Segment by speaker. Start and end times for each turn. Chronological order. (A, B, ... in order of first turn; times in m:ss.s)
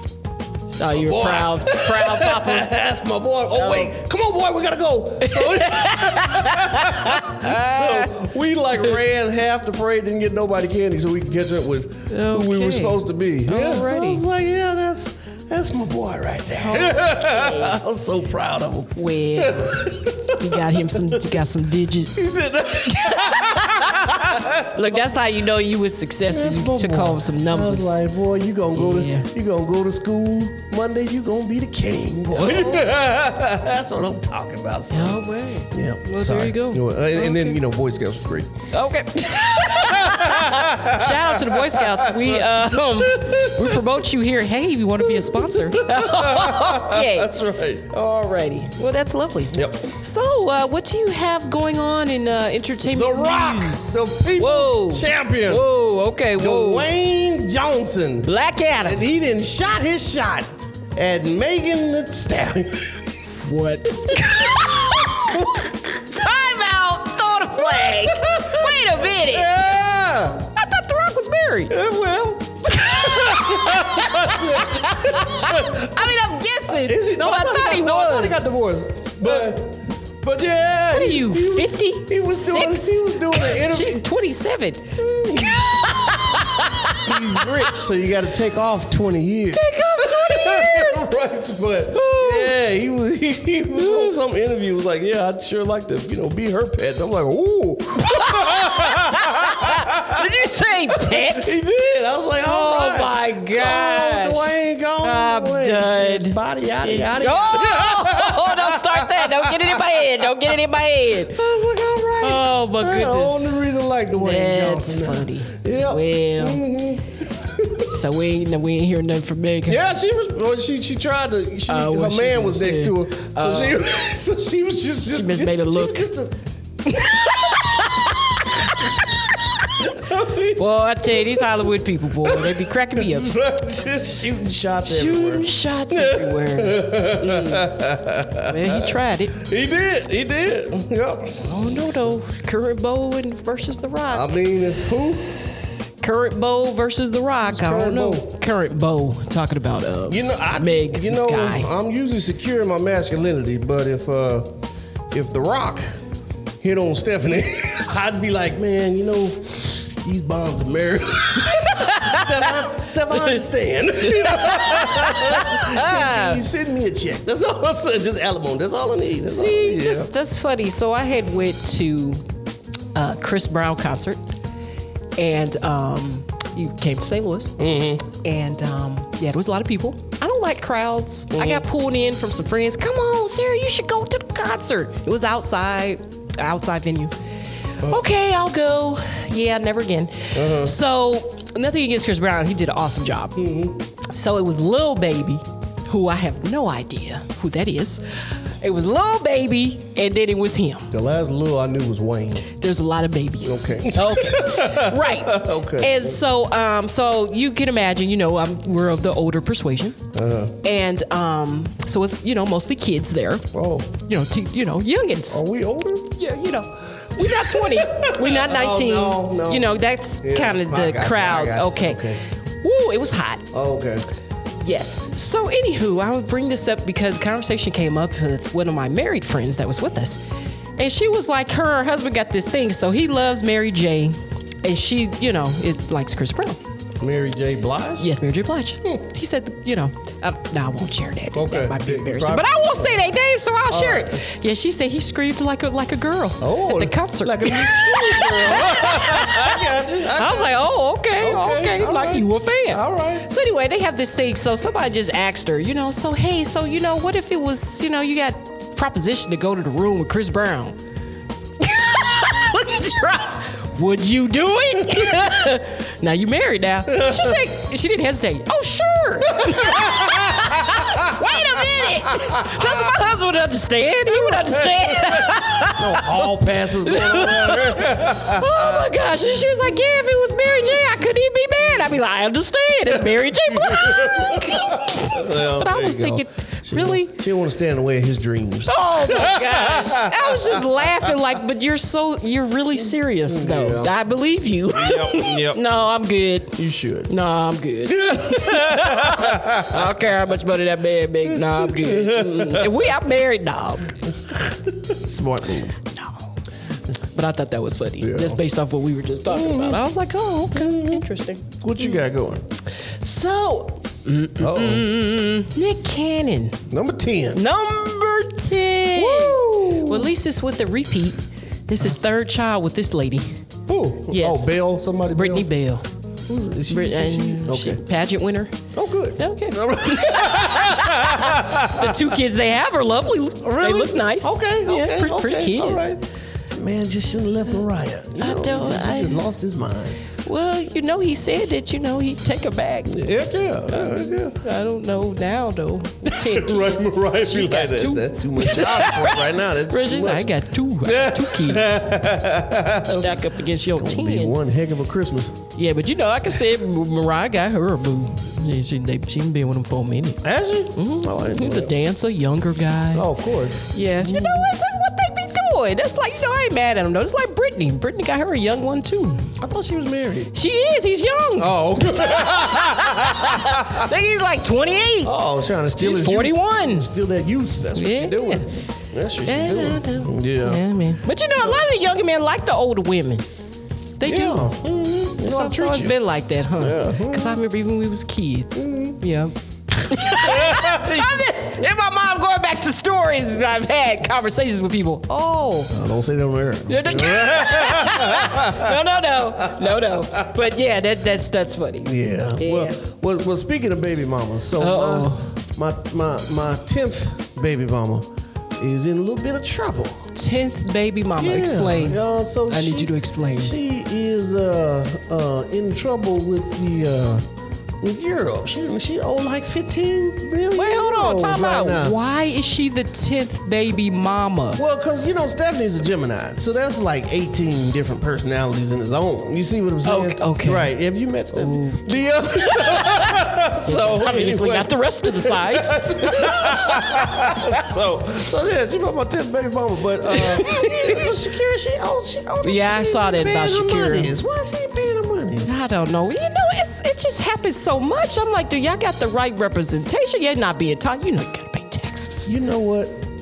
0:00.8-0:02.7 A
0:00.8-0:21.3 B
0:03.6-0:03.9 A
0:05.2-0:08.1 A
0:12.1-0:14.2 A
0:16.6-0:17.8 A
0:18.9-0:22.4 A
0:22.1-0:25.1 B
0:22.9-0:28.0 A
0:26.3-0:38.5 B
0:28.7-0:29.3 A
0:32.4-0:32.8 A
0:34.9-0:37.6 A
0:38.7-0:47.3 A
0:39.4-0:43.8 B
0:45.0-0:47.8 B
0:47.9-0:56.9 A
0:49.5-0:49.9 B
0:52.9-0:55.7 B
0:56.4-1:03.0 B
0:58.2-0:59.0 A
1:03.4-1:09.7 A
1:04.2-1:05.7 B
1:07.6-1:10.5 B
1:10.6-1:11.7 A
1:11.7-1:16.2 B
1:12.7-1:18.4 A
1:16.8-1:24.1 B
1:20.9-1:27.7 A
1:25.0-1:25.7 B
1:26.9-1:40.2 B
1:29.5-1:31.1 A
1:31.9-1:32.5 A
1:33.7-1:34.1 A
1:38.0-1:41.6 A
1:40.9-1:50.5 B
1:42.4-1:44.5 A
1:45.0-1:51.4 A
1:51.3-1:57.9 B
1:52.2-1:53.6 A
1:54.2-1:56.6 A
1:57.9-1:59.8 A
1:59.7-2:06.3 B
2:01.7-2:03.8 A
2:05.0-2:06.1 A
2:06.9-2:08.5 A
2:09.8-2:11.7 B
2:10.6-2:13.3 A
2:12.2-2:22.2 B
2:14.8-2:17.7 A
2:18.4-2:19.4 A
2:21.4-2:24.3 A
2:24.1-2:25.2 B
2:26.0-2:31.7 A
2:27.5-2:28.3 B
2:30.1-2:34.5 B
2:35.1-2:35.9 B
2:36.6-2:50.1 B
2:41.6-2:42.4 A
2:43.1-2:43.4 A
2:44.0-2:46.4 A
2:49.3-2:52.2 A
2:52.9-2:54.2 A
2:55.2-2:57.6 A
2:57.6-2:58.0 B
2:58.2-3:07.1 A
3:01.3-3:01.6 B
3:07.8-3:13.4 A
3:10.3-3:10.8 B
3:13.4-3:13.8 B
3:14.1-3:18.0 A
3:18.6-3:20.9 A
3:20.9-3:22.5 B
3:22.5-3:30.0 A
3:23.4-3:26.2 B
3:30.1-3:30.5 B
3:30.6-3:33.4 A
3:33.5-3:33.9 B
3:34.0-3:35.4 A
3:35.3-3:36.1 B
3:36.1-3:42.0 A
3:37.2-3:42.2 B
3:42.6-3:43.4 A
3:43.5-3:44.0 B
3:44.6-3:50.2 A
3:50.8-3:56.6 A
3:57.0-3:58.1 B
3:58.0-4:09.6 A
4:01.3-4:03.0 B
4:03.7-4:04.2 B
4:06.4-4:10.5 B
4:10.2-4:20.8 A
4:11.2-4:13.3 B
4:21.6-4:36.3 A
4:26.9-4:27.4 B
4:29.4-4:32.9 B
4:34.1-4:38.8 B
4:36.8-4:47.2 A
4:42.9-4:51.1 B
4:48.7-4:56.6 A
4:53.2-4:53.9 B
4:54.7-4:55.6 B
4:56.5-4:57.1 B
4:57.1-5:04.0 A
4:57.9-5:00.0 B
5:01.2-5:02.8 B
5:04.3-5:05.8 B
5:07.1-5:12.0 A
5:08.0-5:08.4 B
5:09.3-5:09.8 B
5:10.5-5:11.0 B
5:11.6-5:12.4 B
5:13.0-5:16.6 A
5:14.4-5:14.9 B
5:16.7-5:17.4 B
5:17.3-5:23.4 A
5:18.9-5:20.1 B
5:23.7-5:25.5 B
5:24.1-5:24.5 A
5:25.1-5:25.8 A
5:26.3-5:27.8 B
5:26.7-5:28.5 A
5:28.7-5:32.2 B
5:29.2-5:36.0 A
5:33.4-5:36.0 B
5:36.5-5:40.0 B
5:38.2-5:39.2 A
5:40.2-5:43.0 A
5:42.9-5:44.4 B
5:43.7-5:51.7 A
5:46.0-5:50.3 B
5:50.8-5:55.4 B
5:52.8-5:54.4 A
5:55.6-6:00.2 A
6:00.2-6:01.7 B
6:00.7-6:03.1 A
6:02.9-6:04.5 B
6:03.7-6:09.3 A
6:09.4-6:10.3 B
6:10.3-6:15.1 A
6:11.4-6:13.8 B
6:15.0-6:20.6 B
6:15.8-6:16.9 A
6:17.7-6:18.5 A
6:19.2-6:23.2 A
6:24.0-6:24.5 A
6:24.0-6:25.9 B
6:25.2-6:35.7 A
6:26.6-6:27.4 B
6:28.6-6:29.0 B
6:30.0-6:31.2 B
6:35.7-6:38.8 B
6:36.7-6:42.8 A
6:39.4-6:40.2 B
6:41.8-6:50.0 B
6:44.6-6:45.3 A
6:50.1-6:53.5 A
6:51.2-6:57.2 B
6:57.8-7:02.0 B
7:00.6-7:04.6 A
7:04.6-7:25.5 B
7:09.8-7:10.7 A
7:11.3-7:17.3 A
7:20.0-7:21.1 A
7:22.4-7:24.1 A
7:25.4-7:32.3 A
7:32.2-7:33.0 B